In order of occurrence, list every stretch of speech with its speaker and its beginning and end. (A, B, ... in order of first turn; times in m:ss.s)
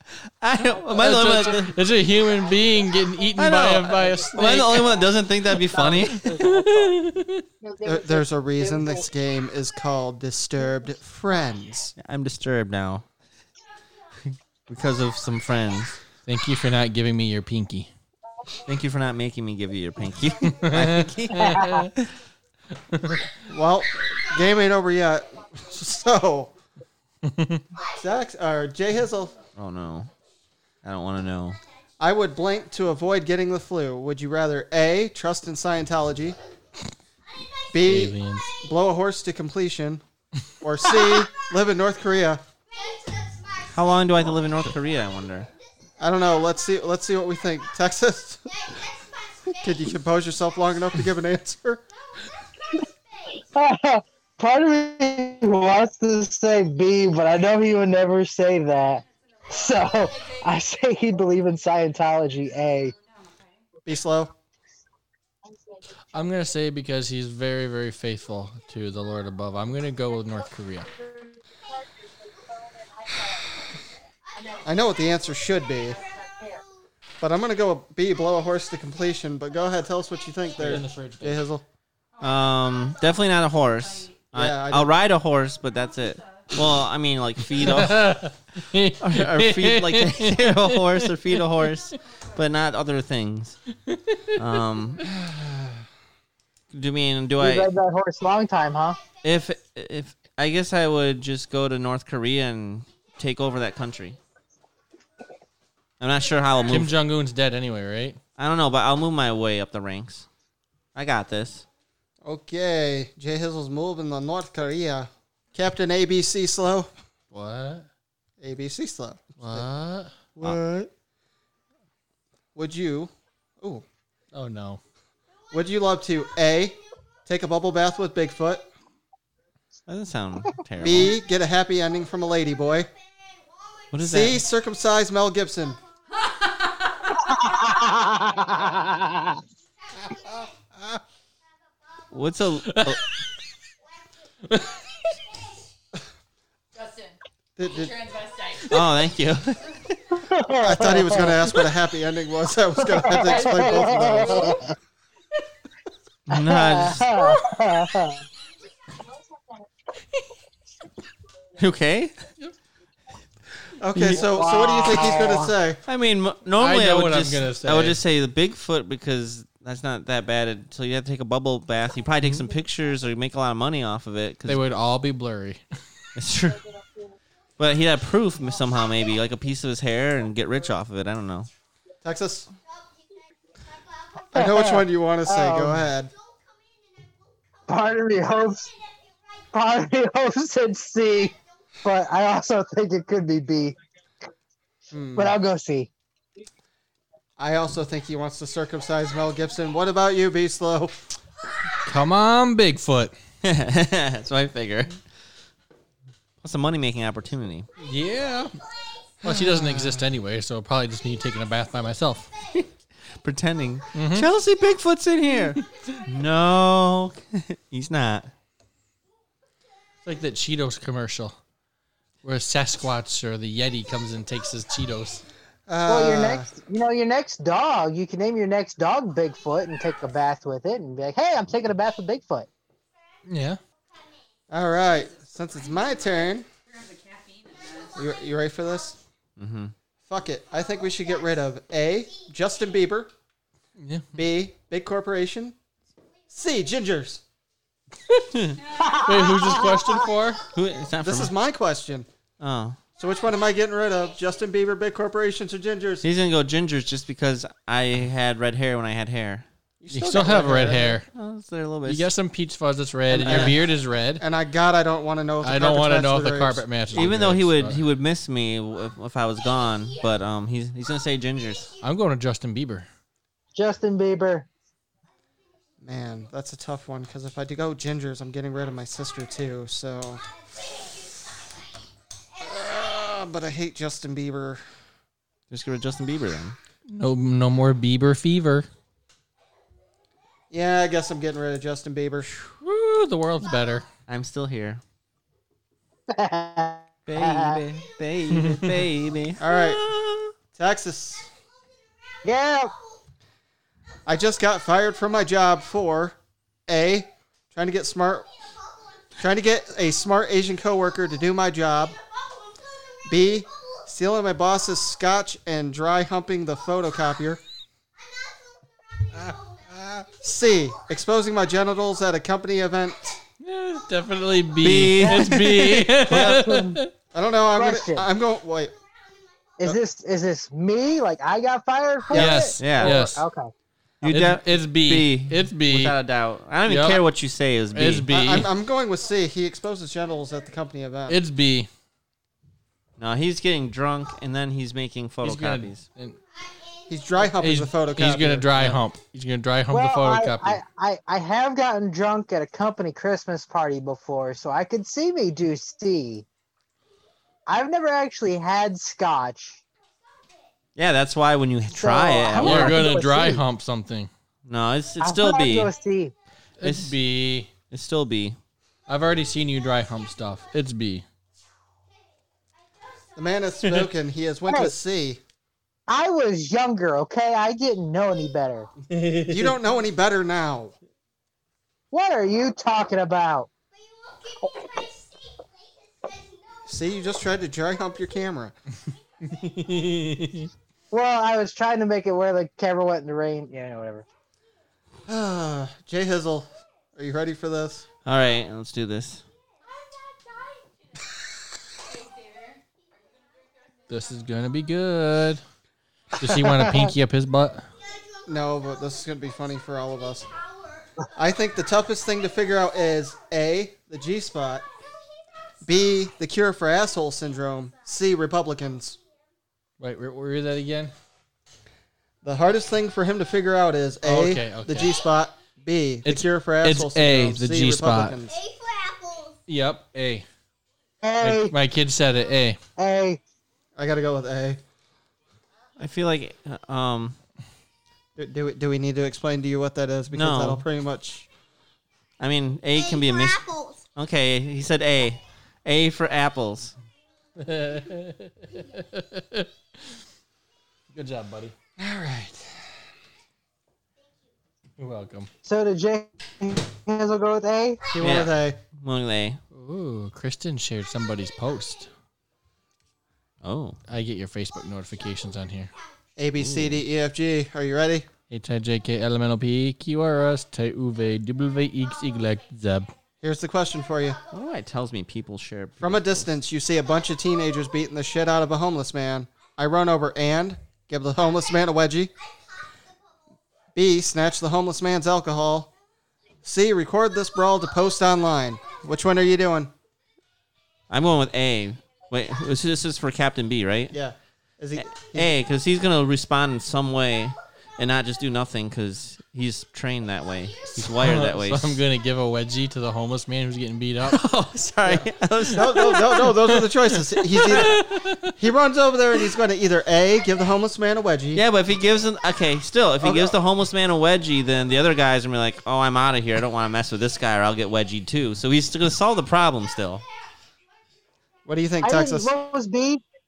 0:00.2-0:01.7 A
0:00.9-0:05.0 B
0:03.4-0:06.3 A
0:05.7-0:07.0 C
0:05.9-0:07.4 B
0:07.8-0:12.0 D
0:12.0-0:13.1 A
0:14.3-0:16.0 A
0:16.3-0:17.9 B
0:18.6-0:22.1 A
0:20.4-0:21.9 B
0:22.9-0:23.3 B
0:23.5-0:26.5 D
0:27.2-0:27.6 B
0:28.0-0:29.4 D
0:29.6-0:30.1 A
0:30.8-0:31.6 A
0:32.0-0:36.4 D
0:37.7-0:40.0 D
0:37.8-0:38.5 B
0:40.6-0:42.4 D
0:43.1-0:43.4 E
0:43.7-0:45.5 A
0:46.0-0:48.6 D
0:49.6-0:51.8 D
0:53.4-1:02.9 C
1:03.8-1:04.3 D
1:06.1-1:10.9 B
1:14.6-1:16.0 D
1:17.2-1:21.6 D
1:20.6-1:21.4 B
1:22.2-1:28.2 A
1:24.3-1:24.9 D
1:27.6-1:31.4 B
1:29.0-1:33.6 A
1:33.9-1:34.3 B
1:34.4-1:35.1 A
1:35.1-1:35.7 D
1:36.7-1:37.7 A
1:37.4-1:39.0 C
1:39.2-1:44.2 A
1:46.0-1:46.9 A
1:46.7-1:48.2 B
1:48.4-1:50.3 A
1:51.0-1:51.7 A
1:52.2-1:56.9 D
1:57.3-1:57.9 B
1:58.4-1:59.7 D
1:59.4-2:00.1 B
2:00.4-2:00.9 D
2:02.6-2:03.8 D
2:04.3-2:04.8 B
2:05.5-2:08.7 D
2:09.9-2:11.2 A
2:10.8-2:12.9 D
2:13.9-2:14.4 A
2:14.0-2:15.8 D
2:17.2-2:19.4 C
2:22.1-2:23.0 A
2:22.7-2:23.0 B
2:24.5-2:24.8 B
2:27.6-2:28.1 D
2:28.6-2:30.2 A
2:30.2-2:31.5 C
2:30.6-2:34.6 D
2:32.8-2:34.7 C
2:36.3-2:37.1 A
2:36.4-2:38.2 C
2:41.6-2:42.2 A
2:43.8-2:45.8 D
2:44.1-2:45.5 C
2:45.9-2:54.6 A
2:46.6-2:48.0 B
2:54.5-2:55.6 B
2:56.2-2:56.6 A
2:57.6-3:01.5 A
3:02.0-3:02.5 D
3:04.3-3:06.1 D
3:04.3-3:05.9 C
3:07.7-3:08.7 C
3:09.5-3:13.8 C
3:14.9-3:15.4 D
3:15.2-3:15.9 C
3:17.4-3:21.2 D
3:21.8-3:23.1 B
3:23.4-3:25.0 A
3:26.4-3:27.7 A
3:27.8-3:28.6 B
3:29.2-3:30.0 D
3:29.2-3:32.3 B
3:32.5-3:38.3 A
3:34.0-3:34.3 B
3:40.0-3:41.4 B
3:42.2-3:45.2 B
3:45.7-3:46.5 D
3:45.9-3:52.5 C
3:53.3-3:53.6 B
3:54.5-3:56.5 D
3:57.9-3:59.0 D
3:59.4-3:59.7 A
4:00.1-4:03.1 D
4:03.8-4:04.1 B
4:04.2-4:05.6 D
4:06.3-4:07.2 D
4:08.3-4:08.6 A
4:08.8-4:10.0 C
4:08.9-4:10.4 B
4:10.5-4:11.3 A
4:11.0-4:12.1 D
4:12.4-4:12.8 A
4:13.0-4:16.0 D
4:16.0-4:19.5 A
4:19.8-4:21.0 D
4:19.9-4:21.1 B
4:21.1-4:22.1 A
4:21.8-4:24.2 B
4:23.1-4:23.6 D
4:23.2-4:23.6 A
4:24.2-4:26.7 D
4:25.4-4:27.8 B
4:26.9-4:31.7 A
4:31.8-4:32.9 B
4:33.6-4:34.5 C
4:35.8-4:40.2 D
4:42.4-4:44.6 D
4:45.5-4:46.6 A
4:46.9-4:48.7 B
4:50.5-4:52.4 D
4:52.4-4:53.9 B
4:54.1-4:54.8 A
4:56.1-4:57.6 C
4:57.1-5:00.3 A
4:58.4-4:58.8 B
4:59.4-4:59.8 D
5:00.5-5:01.3 D
5:02.2-5:02.7 C
5:04.1-5:08.3 D
5:09.2-5:12.0 D
5:13.1-5:17.4 D
5:19.8-5:23.2 D
5:23.4-5:26.9 B
5:24.6-5:25.8 A
5:25.0-5:25.3 C
5:26.0-5:26.6 D
5:26.1-5:26.8 C
5:27.1-5:28.8 D
5:27.5-5:28.1 C
5:29.6-5:33.5 C
5:32.1-5:33.2 B
5:32.1-5:32.5 D
5:32.6-5:33.0 A
5:34.0-5:38.1 A
5:34.0-5:36.0 B
5:36.7-5:37.0 B
5:37.7-5:38.5 B
5:38.1-5:41.2 D
5:41.1-5:41.7 B
5:43.0-5:45.8 A
5:45.2-5:46.2 B
5:46.9-5:48.8 D
5:47.3-5:50.6 B
5:49.7-5:56.3 C
5:57.5-5:59.6 C
6:00.8-6:02.9 A
6:01.8-6:03.4 C
6:02.4-6:04.1 B
6:04.5-6:05.7 A
6:05.0-6:06.1 C
6:06.6-6:07.5 B
6:06.6-6:07.0 A
6:07.7-6:08.4 A
6:08.9-6:11.0 B
6:13.2-6:15.2 D
6:13.6-6:13.9 A
6:14.5-6:14.7 C
6:15.9-6:18.7 C
6:18.9-6:19.5 B
6:19.3-6:20.8 D
6:21.9-6:23.5 C
6:24.1-6:25.5 E
6:26.7-6:28.6 D
6:29.3-6:30.5 B
6:30.9-6:34.0 C
6:35.1-6:37.8 D
6:38.0-6:39.2 A
6:43.9-6:45.4 B
6:46.2-6:47.7 B
6:48.3-6:50.3 D
6:51.2-6:54.7 D
6:55.6-6:59.0 D
6:59.8-7:00.9 B
7:02.2-7:08.4 D
7:04.0-7:04.9 B
7:06.1-7:08.2 B
7:08.3-7:09.4 E
7:09.5-7:10.3 B
7:11.0-7:11.5 C
7:11.2-7:12.6 B
7:12.8-7:13.2 C
7:13.8-7:14.6 D
7:15.8-7:17.2 A
7:18.2-7:21.3 D
7:20.1-7:20.6 A
7:22.2-7:23.4 A
7:22.7-7:23.8 E
7:24.0-7:26.8 A
7:27.4-7:29.5 B
7:30.9-7:31.5 B
7:31.8-7:32.7 D
7:34.8-7:35.3 B
7:35.4-7:37.8 C
7:37.9-7:38.6 D
7:38.0-7:39.4 A
7:39.5-7:41.9 B
7:43.4-7:43.8 A
7:43.9-7:45.7 B
7:46.2-7:48.1 D
7:46.4-7:46.8 A
7:48.3-7:52.9 B
7:53.2-7:54.2 D
7:54.3-7:56.3 A
7:55.8-8:02.1 D
8:03.8-8:05.7 D
8:06.4-8:09.7 D
8:10.9-8:14.0 A
8:13.9-8:15.3 D
8:14.8-8:21.8 A
8:20.7-8:24.2 B
8:24.0-8:26.3 A
8:24.8-8:27.8 D
8:25.6-8:26.7 B
8:27.5-8:28.3 B
8:28.3-8:31.4 D
8:31.3-8:40.0 A
8:33.0-8:33.4 D
8:41.5-8:42.3 D
8:41.8-8:43.0 C